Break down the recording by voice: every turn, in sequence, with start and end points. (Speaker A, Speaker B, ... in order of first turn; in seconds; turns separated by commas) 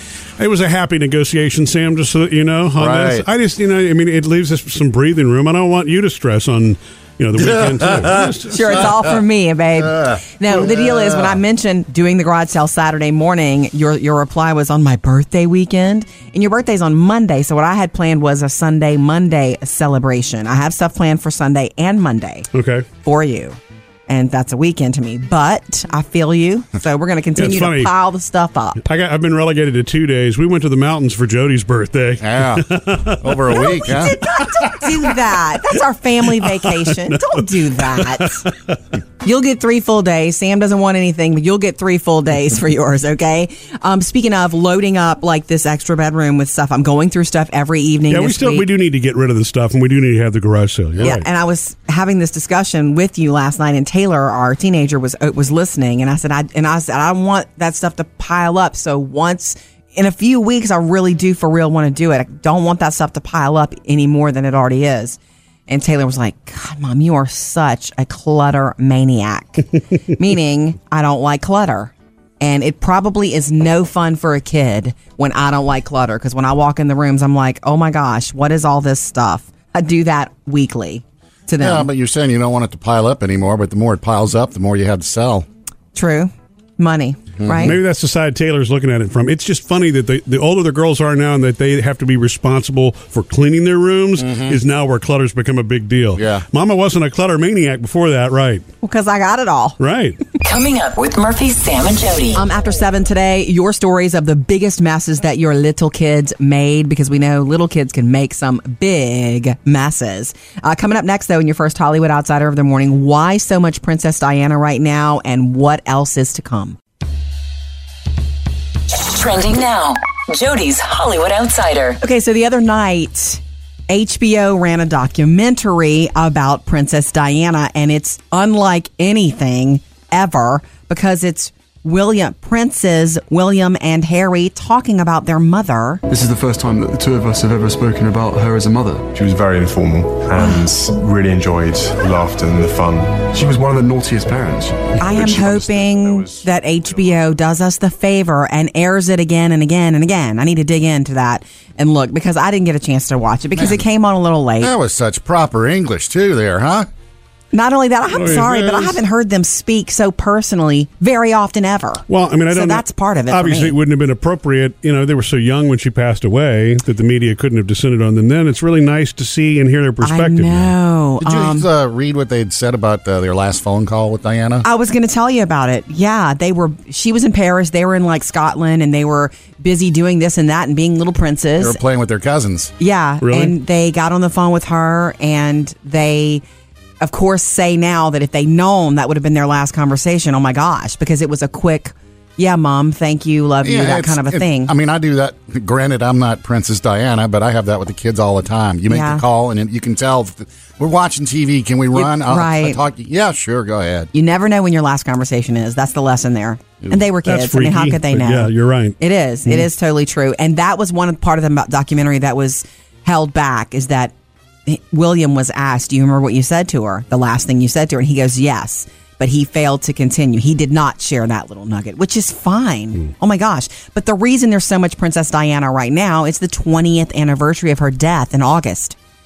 Speaker A: 0.4-8.9, Speaker B: 2.8-3.3, Speaker B: 7.4-8.4, Speaker C: 8.5-22.5, Speaker B: 9.9-11.3, Speaker A: 22.5-22.9, Speaker C: 23.0-28.8, Speaker A: 27.4-27.9, Speaker A: 28.8-33.8, Speaker B: 32.2-32.6, Speaker B: 33.2-34.9, Speaker C: 33.5-38.4, Speaker A: 36.5-38.8, Speaker C: 39.2-48.7, Speaker A: 48.1-51.3, Speaker C: 51.0-81.9, Speaker B: 81.6-85.5, Speaker C: 86.0-87.8, Speaker B: 87.4-87.8, Speaker A: 87.6-98.6, Speaker B: 94.2-94.6, Speaker B: 96.2-96.5, Speaker C: 98.8-99.8, Speaker A: 99.8-100.2, Speaker D: 100.4-102.4, Speaker C: 102.3-116.8, Speaker D: 118.9-122.0, Speaker C: 122.0-136.0, Speaker E: 136.1-141.3, Speaker F: 139.4-143.4, Speaker C: 140.4-140.7, Speaker E: 143.1-145.8, Speaker F: 144.6-146.4, Speaker C: 145.0-154.7, Speaker B: 153.6-153.8, Speaker B: 154.6-156.9, Speaker C: 157.5-163.8, Speaker A: 158.1-159.0, Speaker A: 162.1-170.7, Speaker C: 170.0-171.7, Speaker B: 171.2-174.7, Speaker C: 174.6-181.8, Speaker B: 181.6-182.7, Speaker C: 182.8-186.4, Speaker A: 183.2-183.5, Speaker C: 187.0-194.7, Speaker B: 193.6-204.1, Speaker C: 198.9-199.2, Speaker C: 201.9-202.8, Speaker C: 204.1-214.1, Speaker A: 207.3-209.0, Speaker C: 214.7-229.0